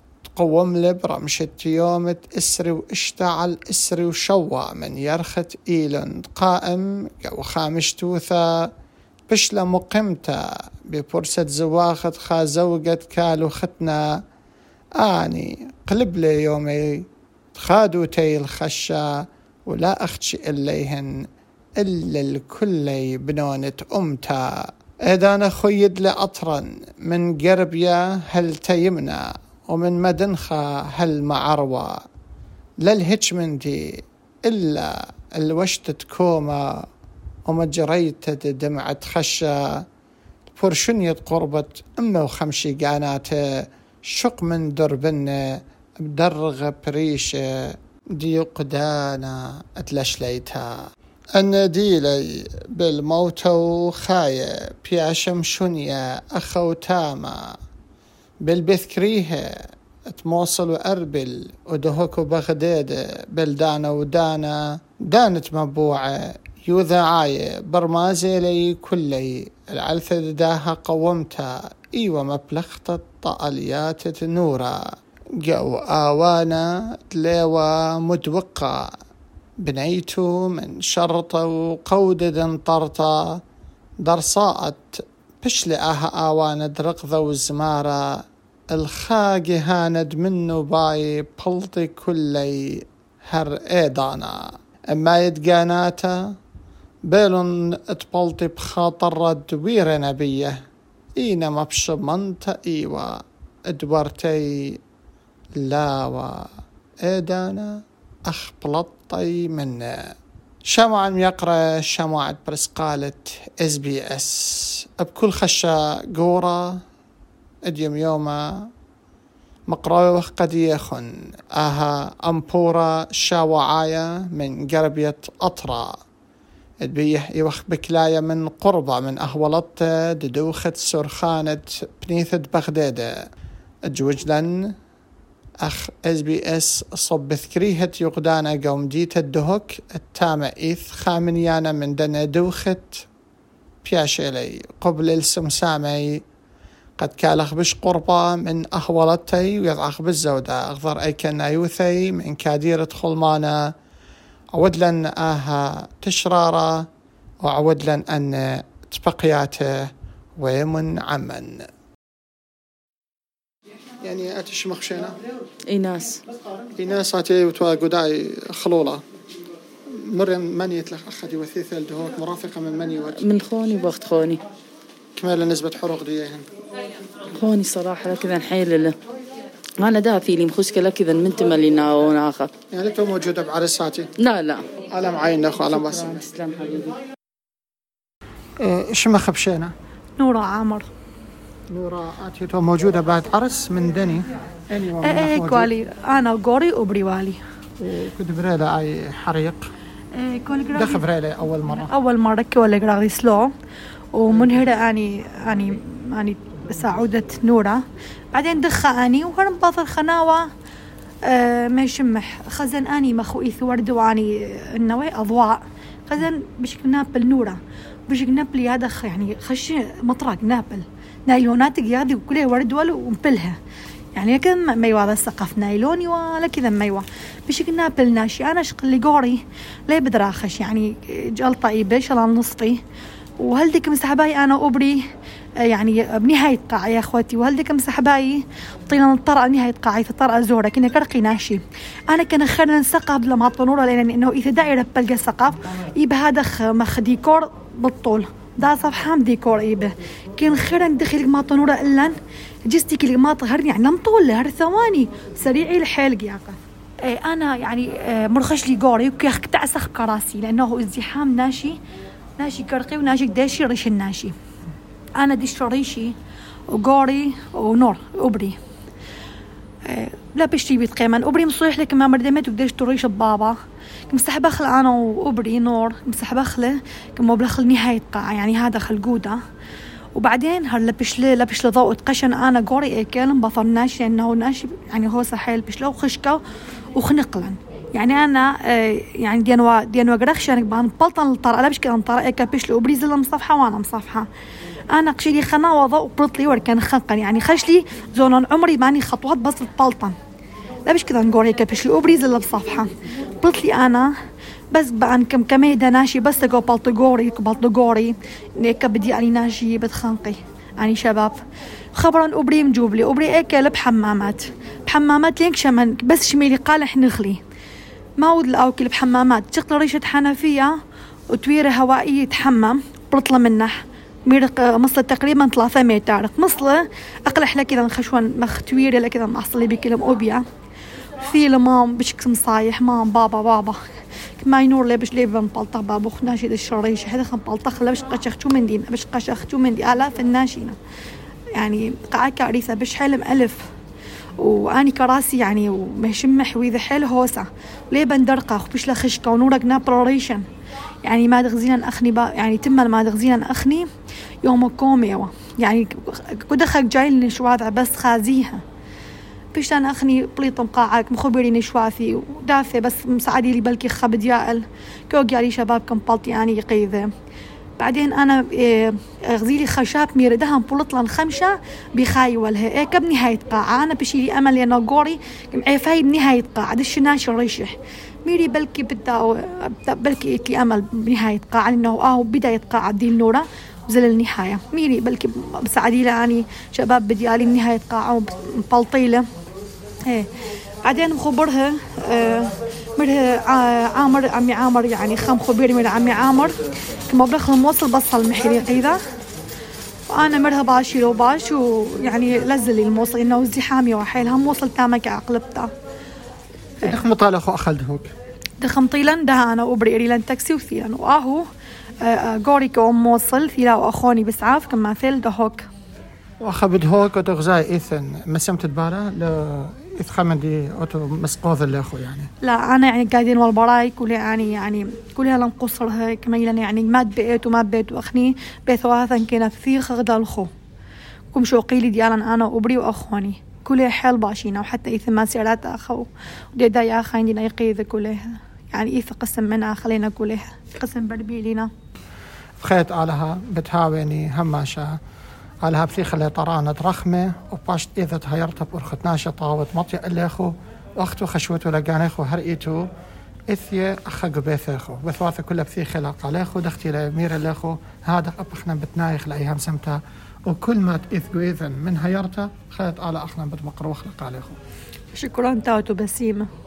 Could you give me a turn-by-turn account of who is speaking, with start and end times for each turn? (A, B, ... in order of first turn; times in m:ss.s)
0:00.3-0:08.7 A
0:09.3-0:14.2 A
0:15.0-0:19.1 A
0:19.7-0:21.1 A
0:21.8-0:24.5 A
0:25.1-0:32.0 A
0:32.8-0:36.8 A
0:37.5-0:39.8 A
0:40.6-0:50.7 A
0:51.4-0:57.4 A
0:58.4-0:59.5 A
1:00.1-1:14.8 A
1:15.4-1:18.9 A
1:19.6-1:23.4 A
1:24.0-1:36.2 A
1:37.1-1:40.6 A
1:41.2-1:43.2 A
1:43.7-1:44.8 A
1:45.6-1:46.5 A
1:47.0-1:50.0 A
1:50.7-1:56.8 A
1:57.7-1:58.7 A
1:59.7-2:05.9 A
2:06.8-2:13.1 A
2:13.9-2:14.7 A
2:15.6-2:23.0 A
2:23.8-2:26.2 A
2:27.0-2:33.6 A
2:34.5-2:36.8 A
2:37.4-2:39.7 A
2:40.4-2:41.6 A
2:44.0-2:45.2 A
2:45.7-2:46.2 B
2:46.8-2:49.0 A
2:50.1-2:53.2 A
2:53.2-2:54.4 B
2:55.2-2:56.4 A
2:57.3-2:59.0 B
2:59.8-3:02.5 B
3:02.7-3:04.1 A
3:04.2-3:04.7 B
3:04.8-3:06.2 A
3:05.8-3:07.0 B
3:08.6-3:09.7 A
3:10.2-3:10.9 C
3:11.7-3:15.7 A
3:15.0-3:17.4 C
3:17.8-3:19.6 A
3:20.1-3:21.0 C
3:20.7-3:21.9 A
3:21.7-3:23.5 C
3:24.1-3:27.8 C
3:28.3-3:30.5 C
3:31.2-3:43.6 C
3:44.1-3:52.8 C
3:53.4-3:55.0 C
3:55.6-4:12.2 C
4:12.7-4:21.8 C
4:22.4-4:24.3 C
4:25.2-4:26.1 C
4:26.7-4:28.5 C
4:29.9-4:33.6 C
4:34.1-4:39.4 C
4:40.2-4:46.4 C
4:47.0-4:54.3 C
4:54.9-5:00.2 C
5:00.9-5:04.1 C
5:04.7-5:11.4 C
5:12.0-5:17.4 C
5:18.2-5:20.7 C
5:21.3-5:23.7 C
5:24.3-5:30.4 C
5:31.2-5:33.8 C
5:34.4-5:40.8 C
5:41.5-5:43.6 C
5:44.4-5:50.4 C
5:51.0-5:53.9 C
5:54.4-5:58.6 C
5:59.5-6:07.1 C
6:07.8-6:29.2 C
6:30.8-6:36.5 C
6:37.1-6:39.0 C
6:40.1-6:45.7 C
6:46.8-6:48.1 A
6:48.6-6:51.4 C
6:52.0-6:55.6 C
6:56.4-7:02.3 A
7:02.4-7:10.5 C
7:11.3-7:21.7 C
7:22.6-7:25.0 A
7:25.6-7:32.9 A
7:33.5-7:44.6 A
7:45.1-7:46.5 C